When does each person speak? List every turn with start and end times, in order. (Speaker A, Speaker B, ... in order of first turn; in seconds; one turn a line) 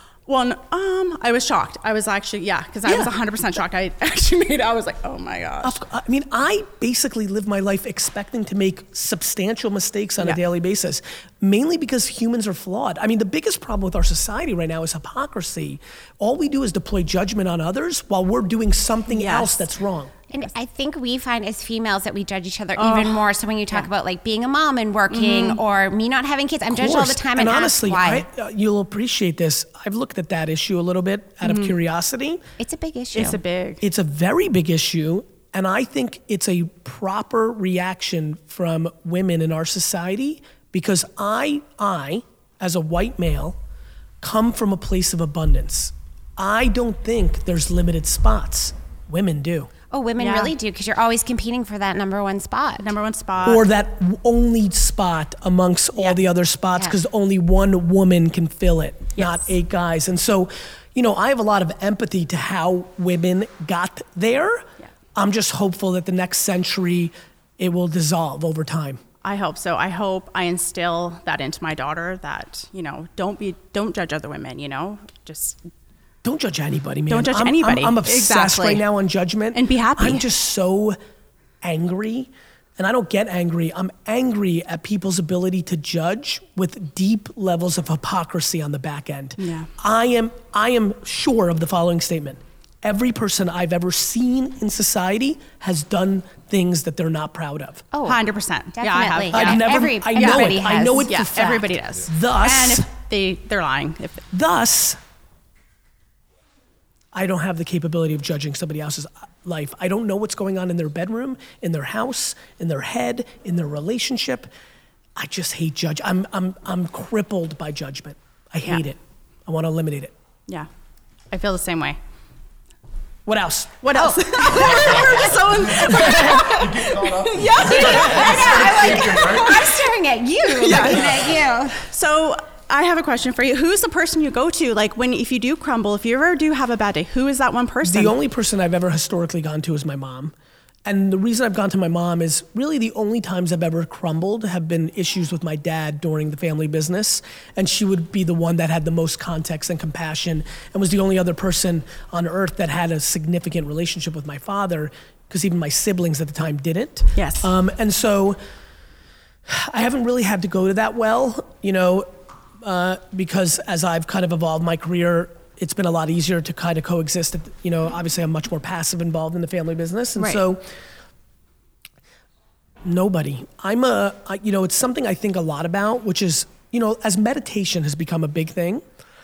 Speaker A: 0.3-5.8
Speaker B: 2.9-3.1
Speaker B: 5.6-20.1
Speaker A: 19.1-19.6
Speaker C: 20.3-28.2
Speaker A: 22.8-23.9
Speaker A: 25.1-25.6
Speaker B: 26.7-32.4
Speaker A: 31.4-31.7
Speaker C: 32.6-33.4
Speaker A: 33.1-33.8
Speaker B: 33.8-43.6
Speaker B: 44.2-49.7
Speaker C: 49.9-52.9
Speaker A: 50.2-50.5
Speaker A: 52.8-53.6
Speaker B: 53.4-69.0
Speaker A: 69.2-75.6
Speaker B: 76.2-81.0
Speaker A: 77.1-78.8
Speaker A: 79.5-80.3
Speaker B: 81.6-97.8
Speaker A: 89.4-89.7
Speaker C: 97.9-98.2
Speaker A: 98.0-104.2
Speaker C: 98.7-101.1
Speaker B: 99.3-102.8
Speaker B: 104.3-105.0
Speaker B: 107.1-114.5
Speaker B: 115.2-120.1
Speaker A: 121.3-122.0
Speaker B: 123.2-124.0
Speaker A: 123.8-129.7
Speaker C: 123.9-125.2
Speaker B: 126.0-126.4
Speaker C: 127.7-131.8
Speaker A: 130.6-138.1
Speaker B: 137.8-140.3
Speaker B: 140.8-158.4
Speaker A: 157.2-157.5
Speaker B: 159.5-170.6
Speaker B: 172.8-178.8